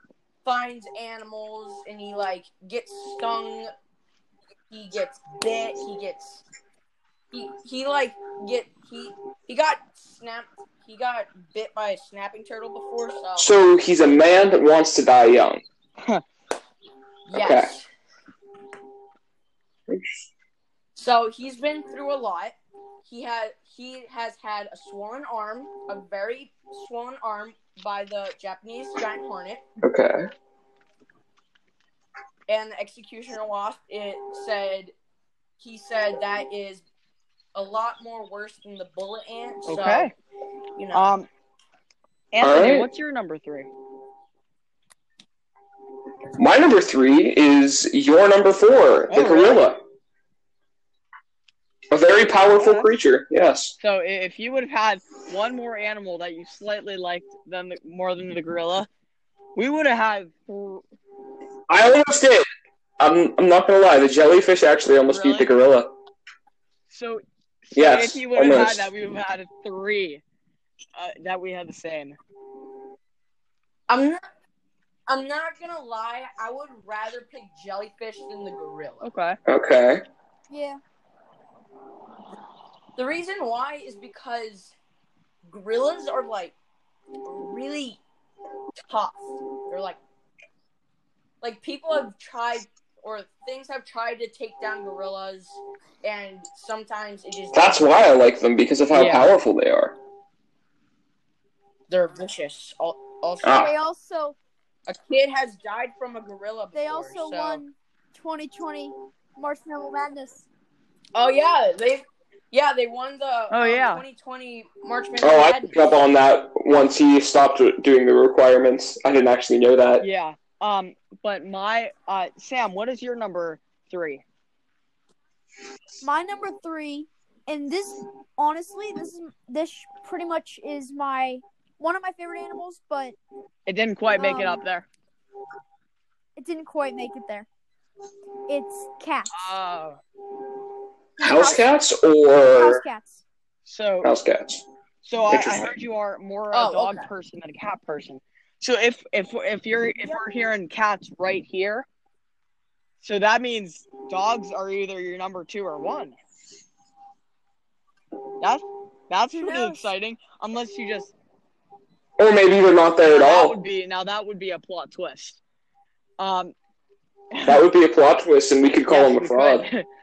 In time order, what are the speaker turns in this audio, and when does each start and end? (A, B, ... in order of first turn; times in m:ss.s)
0:00.4-0:03.7 A
0:04.7-0:06.4 A
0:07.3-0:13.5 A
0:13.4-0:15.6 B
0:17.3-0:17.9 A
0:17.3-0:17.7 B
0:19.9-0:20.2 B
0:21.0-0:29.6 A
0:29.8-0:30.3 B
0:32.5-0:34.9 A
0:35.6-0:36.8 A
0:37.5-0:40.1 A
0:39.6-0:40.1 C
0:40.8-0:41.1 A
0:40.9-0:41.3 C
0:42.3-0:43.7 C
0:42.4-0:42.9 B
0:46.4-0:49.8 B
0:49.1-0:49.6 C
0:51.9-0:53.7 B
0:52.4-0:52.9 C
0:53.8-0:58.9 C
0:59.5-1:00.8 C
1:01.7-1:02.5 B
1:03.0-1:05.9 B
1:05.1-1:05.5 C
1:06.9-1:10.2 C
1:07.8-1:08.9 B
1:11.0-1:12.2 C
1:13.9-1:14.2 A
1:15.1-1:19.1 A
1:19.0-1:19.4 C
1:19.5-1:20.0 B
1:20.5-1:20.8 D
1:23.0-1:24.7 A
1:25.4-1:26.5 A
1:27.2-1:28.0 A
1:28.8-1:30.0 A
1:31.4-1:37.9 A
1:37.5-1:40.0 B
1:38.9-1:39.3 C
1:41.9-1:43.6 A
1:43.4-1:43.7 B
1:43.5-1:44.4 D
1:44.9-1:47.6 A
1:46.7-1:50.4 D
1:51.1-1:55.8 A
1:53.5-1:54.0 C
1:55.2-2:00.0 B
2:00.0-2:04.2 C
2:06.0-2:13.2 D
2:13.6-2:14.8 C
2:14.1-2:14.6 D
2:16.4-2:17.5 D
2:18.5-2:19.5 D
2:19.3-2:20.0 C
2:21.2-2:21.6 D
2:21.2-2:22.8 B
2:22.6-2:23.2 D
2:23.6-2:24.1 C
2:24.0-2:24.6 B
2:25.0-2:31.9 C
2:25.3-2:25.7 B
2:26.5-2:27.1 A
2:33.0-2:36.2 C
2:38.4-2:41.1 C
2:39.4-2:39.8 A
2:42.2-2:43.6 B
2:43.0-2:45.4 C
2:46.2-2:46.5 C
2:47.3-2:47.6 C
2:47.4-2:49.7 B
2:48.9-2:49.8 C